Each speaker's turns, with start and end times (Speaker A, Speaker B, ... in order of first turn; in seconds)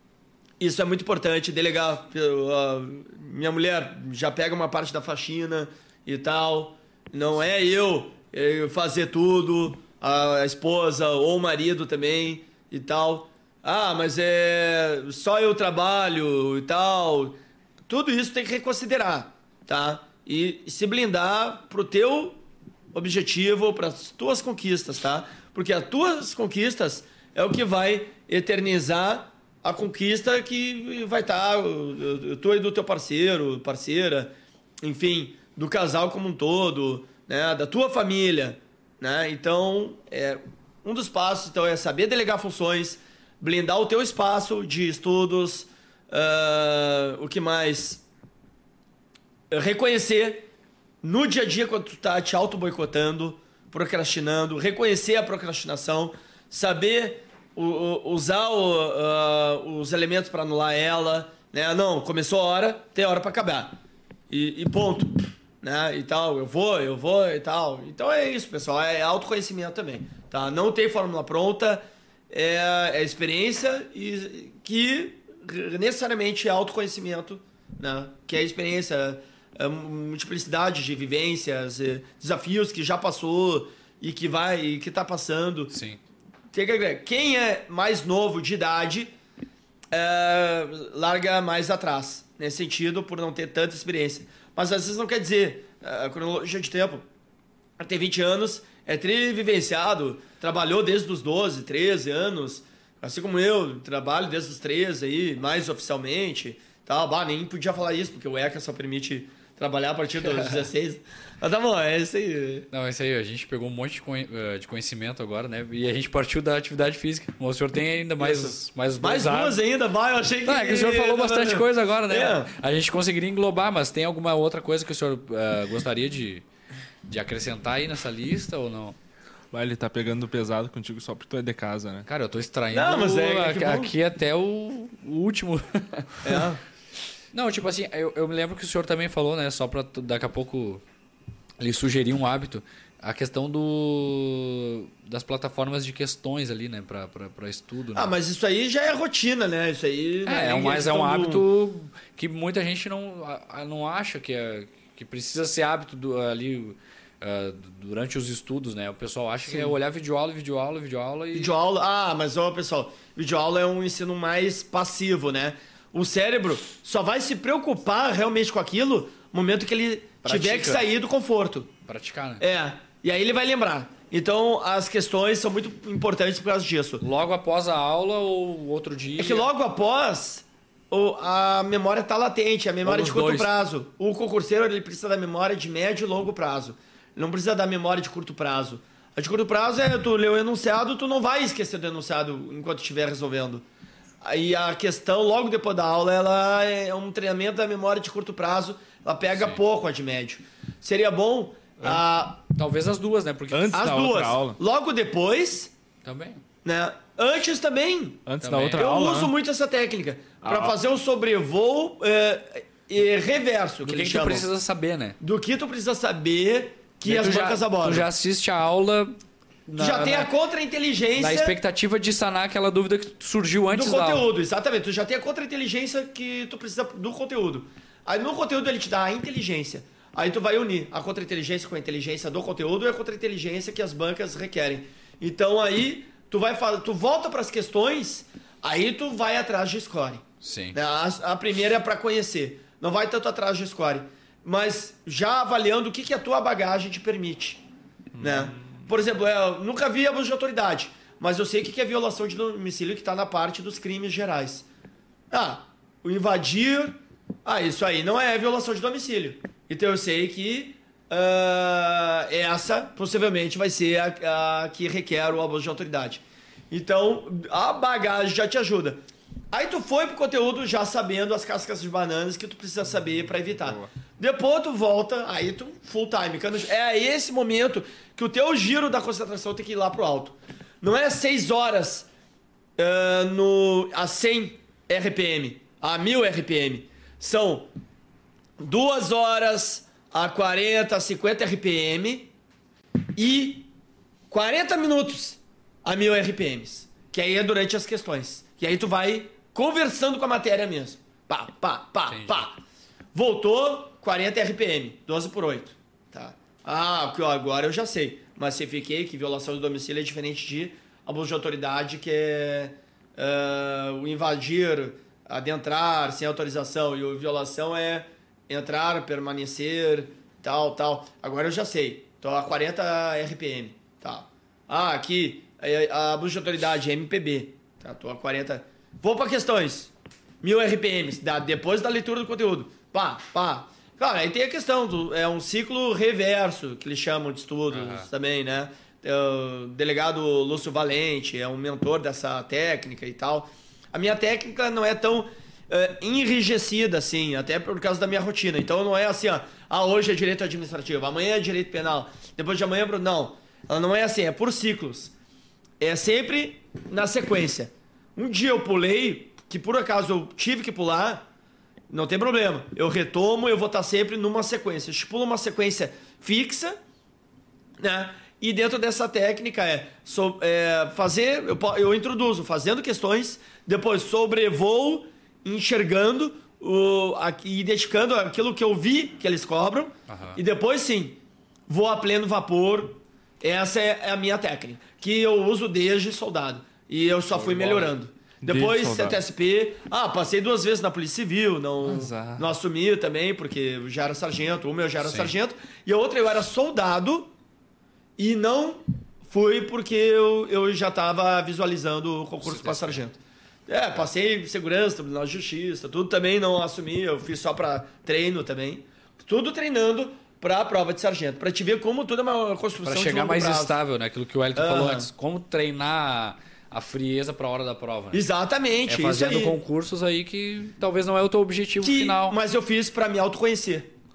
Speaker A: 0.6-22.4, 22.9-48.0, 49.5-50.5, 51.0-63.8, 64.3-85.7, 86.5-89.1, 89.9-97.0, 97.8-112.7, 118.2-122.5, 132.7-133.9, 136.2-136.6, 147.9-151.4, 159.4-159.7, 161.3-171.7, 172.4-177.0, 179.2-193.6, 194.2-202.4, 203.7-205.7, 206.6-208.2, 208.7-214.5, 215.2-218.1, 219.8-221.6, 223.7-247.6, 248.2-254.7, 255.3-269.0, 269.5-282.1, 282.8-287.7, 288.6-292.3, 293.1-293.7, 294.3-302.6, 303.1-355.1, 355.8-361.2, 361.9-366.8, 367.8-397.3, 398.2-413.8, 414.5-415.1, 418.1-419.6, 421.8-423.9
Speaker B: 85.7-86.0, 112.7-119.6, 120.4-126.4, 127.1-129.0, 132.1-136.4, 137.3-140.8, 141.6-148.1, 150.2-161.5, 170.2-170.9, 171.9-172.4, 177.0-179.5, 182.8-183.5, 199.3-199.6, 202.5-203.9, 206.0-206.4, 208.4-208.9, 213.8-215.2, 217.0-220.3, 221.2-224.3, 240.4-240.8, 302.1-302.5, 337.7-338.1, 380.1-380.4, 387.3-387.9, 395.0-395.3, 402.4-403.0, 412.8-418.2, 418.9-422.4
Speaker C: 129.5-132.1, 203.5-204.6, 208.2-209.3, 210.4-210.8, 248.1-248.9, 273.6-273.9, 388.4-389.2, 391.8-392.4